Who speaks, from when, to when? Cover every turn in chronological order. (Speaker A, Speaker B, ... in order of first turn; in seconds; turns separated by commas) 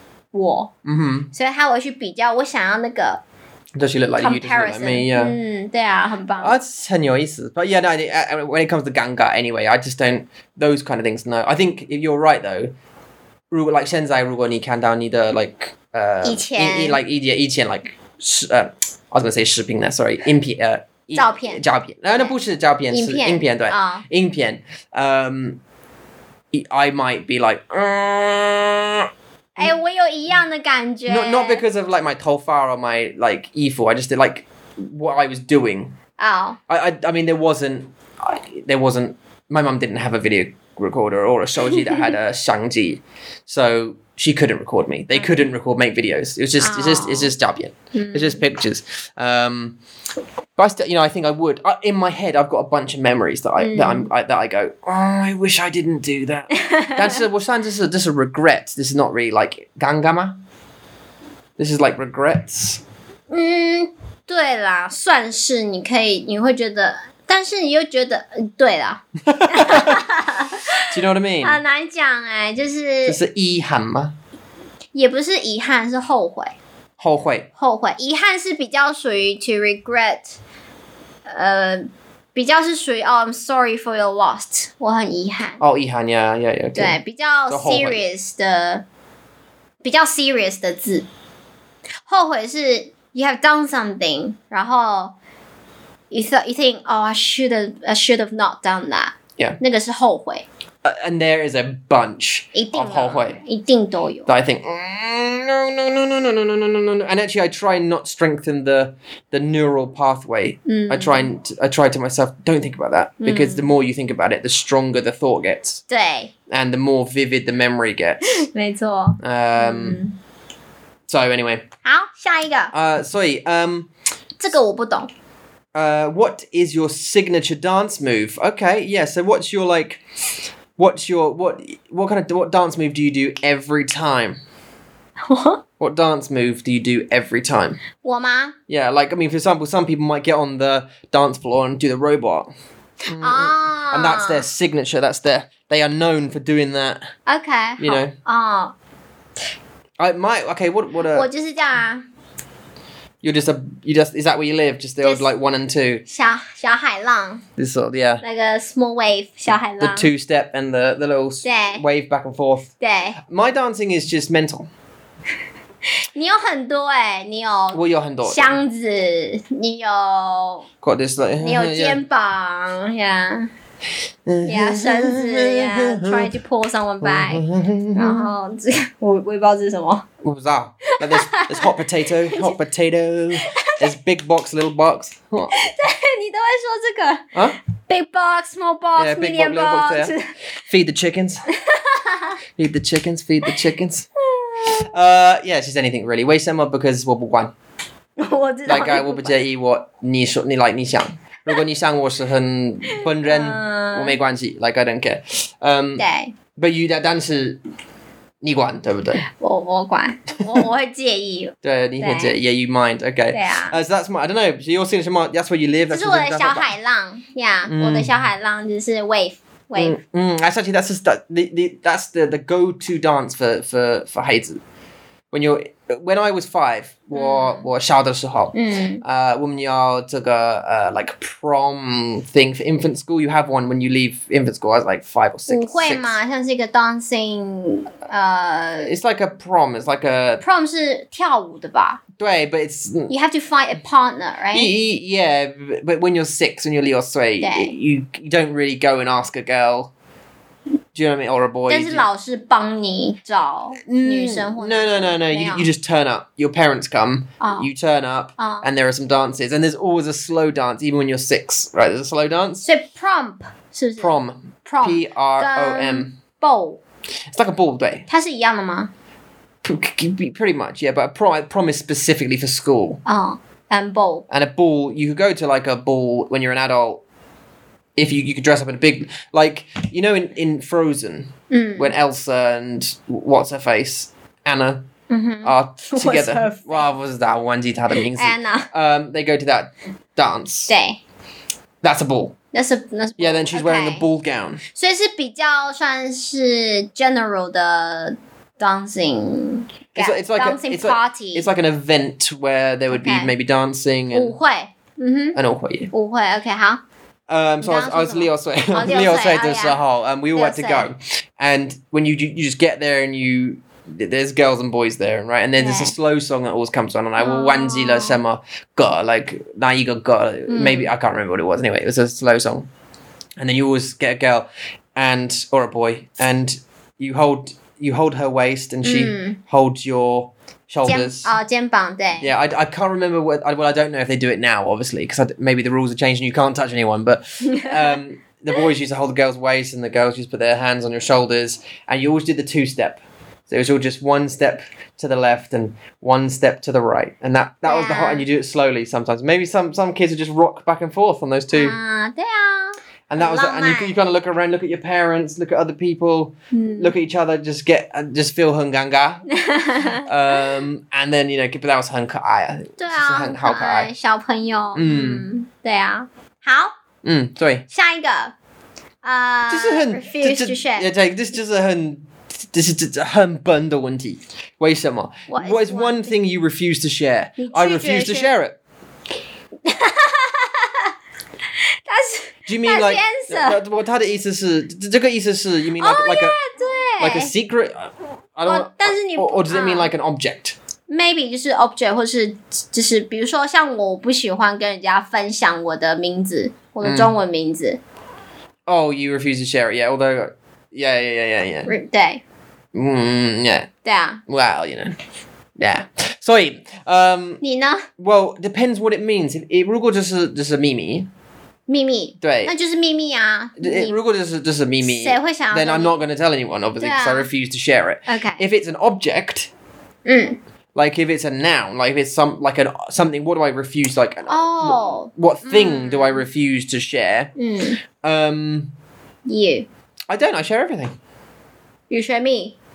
Speaker A: 0.3-0.7, Speaker B: 0.8-1.3, Speaker A: 1.3-3.2, Speaker B: 3.8-5.4, Speaker A: 4.2-6.5, Speaker B: 6.4-12.7, Speaker B: 13.5-25.6, Speaker A: 16.2-17.0, Speaker A: 21.1-21.6, Speaker A: 22.9-24.1, Speaker B: 26.5-29.8, Speaker A: 29.6-31.6, Speaker B: 31.1-35.9, Speaker A: 36.2-36.6, Speaker B: 36.7-49.8, Speaker A: 45.1-45.4, Speaker A: 46.6-47.3, Speaker A: 48.0-48.4, Speaker B: 50.6-60.4, Speaker A: 53.6-54.1, Speaker A: 56.5-57.2, Speaker B: 61.6-62.8, Speaker A: 63.3-73.2, Speaker B: 69.3-70.0, Speaker B: 70.9-71.6, Speaker B: 73.1-74.2, Speaker A: 74.9-76.5, Speaker B: 77.0-77.5, Speaker A: 77.6-80.4, Speaker A: 81.3-85.6, Speaker B: 85.6-87.0, Speaker A: 86.8-88.8, Speaker B: 87.5-88.0, Speaker A: 89.8-91.0, Speaker A: 92.1-95.2, Speaker A: 96.1-100.5, Speaker B: 100.8-103.4, Speaker A: 102.5-104.3, Speaker B: 104.3-115.8, Speaker A: 110.7-111.3, Speaker A: 113.2-113.7, Speaker A: 115.9-116.3, Speaker B: 116.5-118.5, Speaker A: 118.3-120.2, Speaker B: 119.2-120.0, Speaker B: 121.1-121.7, Speaker A: 121.8-122.7, Speaker B: 122.7-123.9, Speaker A: 124.4-125.1, Speaker B: 125.7-130.0, Speaker B: 130.8-134.4, Speaker A: 135.3-135.6, Speaker B: 135.8-137.8, Speaker A: 138.0-138.6, Speaker B: 138.7-142.5, Speaker B: 143.1-147.1, Speaker A: 143.2-144.4, Speaker A: 147.3-148.7, Speaker B: 147.8-148.1, Speaker B: 150.0-151.3, Speaker A: 151.1-152.0, Speaker B: 153.2-156.0, Speaker A: 155.0-155.3, Speaker A: 156.1-157.4, Speaker B: 157.6-158.2, Speaker A: 158.2-160.1, Speaker B: 159.8-164.7, Speaker A: 161.4-161.8, Speaker A: 162.8-163.2, Speaker A: 166.2-170.7, Speaker B: 167.7-168.6, Speaker B: 170.8-172.0, Speaker A: 171.4-173.5, Speaker B: 174.3-176.3, Speaker A: 174.4-180.1, Speaker B: 177.0-178.3, Speaker B: 180.2-185.6, Speaker A: 180.9-181.8, Speaker A: 182.3-182.6, Speaker A: 183.4-183.9, Speaker A: 185.5-187.3, Speaker A: 187.9-190.3, Speaker B: 189.0-190.1, Speaker B: 190.7-191.4, Speaker A: 191.6-192.4, Speaker B: 192.6-194.1, Speaker A: 194.3-194.9, Speaker B: 194.7-197.5, Speaker A: 198.2-199.3, Speaker B: 198.7-206.0, Speaker A: 202.9-204.2, Speaker A: 206.0-206.3, Speaker B: 206.6-207.6, Speaker B: 208.4-209.2, Speaker A: 209.2-212.4, Speaker B: 211.6-216.7, Speaker A: 213.3-213.8, Speaker A: 215.9-220.0, Speaker B: 217.7-218.1, Speaker B: 219.8-224.6, Speaker B: 225.3-236.2, Speaker A: 227.1-227.7, Speaker A: 228.5-229.0, Speaker A: 235.5-238.9, Speaker B: 238.8-240.4, Speaker A: 240.4-242.0, Speaker B: 242.2-243.1, Speaker A: 243.1-244.7, Speaker B: 244.5-249.9, Speaker A: 247.4-247.8, Speaker B: 250.9-252.1, Speaker A: 251.7-255.7, Speaker B: 253.9-262.6, Speaker A: 257.4-257.7, Speaker A: 258.4-258.7, Speaker A: 262.6-266.8, Speaker B: 264.0-266.1, Speaker B: 267.3-268.1, Speaker A: 268.1-268.9, Speaker B: 269.6-273.0, Speaker A: 273.1-274.2, Speaker B: 274.3-277.0, Speaker B: 278.0-284.9, Speaker A: 281.5-281.9, Speaker A: 285.1-286.9, Speaker B: 285.4-290.7, Speaker A: 288.0-288.7, Speaker A: 290.7-291.0, Speaker B: 291.8-292.4, Speaker A: 292.5-294.1, Speaker B: 293.2-294.6, Speaker A: 294.7-301.5, Speaker B: 300.0-304.4, Speaker A: 302.9-303.3, Speaker A: 304.1-305.4, Speaker B: 305.4-305.9, Speaker A: 305.9-306.8, Speaker B: 307.3-322.7, Speaker A: 307.6-309.8, Speaker A: 310.3-310.9, Speaker A: 315.6-315.9, Speaker A: 317.2-318.2, Speaker A: 320.5-320.9, Speaker B: 323.4-331.3, Speaker A: 328.8-329.4, Speaker A: 330.8-332.3, Speaker B: 332.2-351.8, Speaker A: 337.4-338.0, Speaker A: 347.7-348.2, Speaker A: 351.5-354.0, Speaker B: 353.1-359.3, Speaker A: 356.5-356.9, Speaker A: 359.3-360.5, Speaker B: 360.0-363.9, Speaker A: 362.8-366.7, Speaker B: 364.8-365.3, Speaker B: 367.0-367.7, Speaker A: 367.7-368.3, Speaker A: 369.0-370.9, Speaker B: 369.5-378.6, Speaker A: 375.3-376.1, Speaker A: 377.4-378.3, Speaker A: 379.6-380.9, Speaker A: 381.9-383.6, Speaker B: 382.5-386.4, Speaker A: 385.8-387.3, Speaker B: 387.0-390.6, Speaker A: 388.5-389.9, Speaker A: 390.9-397.8, Speaker B: 396.8-397.1, Speaker B: 398.7-401.7, Speaker A: 401.7-402.2, Speaker B: 402.7-403.7, Speaker A: 403.8-404.2, Speaker B: 404.3-405.0, Speaker B: 405.6-407.4, Speaker A: 407.4-407.9, Speaker B: 408.0-411.1, Speaker A: 411.7-414.0, Speaker B: 412.2-412.5, Speaker B: 413.6-419.5, Speaker A: 414.8-415.9, Speaker A: 416.8-417.3, Speaker A: 418.1-418.4, Speaker A: 420.1-420.4, Speaker B: 420.8-427.3, Speaker A: 424.3-426.2, Speaker A: 427.4-427.8, Speaker B: 428.0-428.7, Speaker A: 429.3-429.7, Speaker B: 430.1-430.9, Speaker A: 431.9-432.6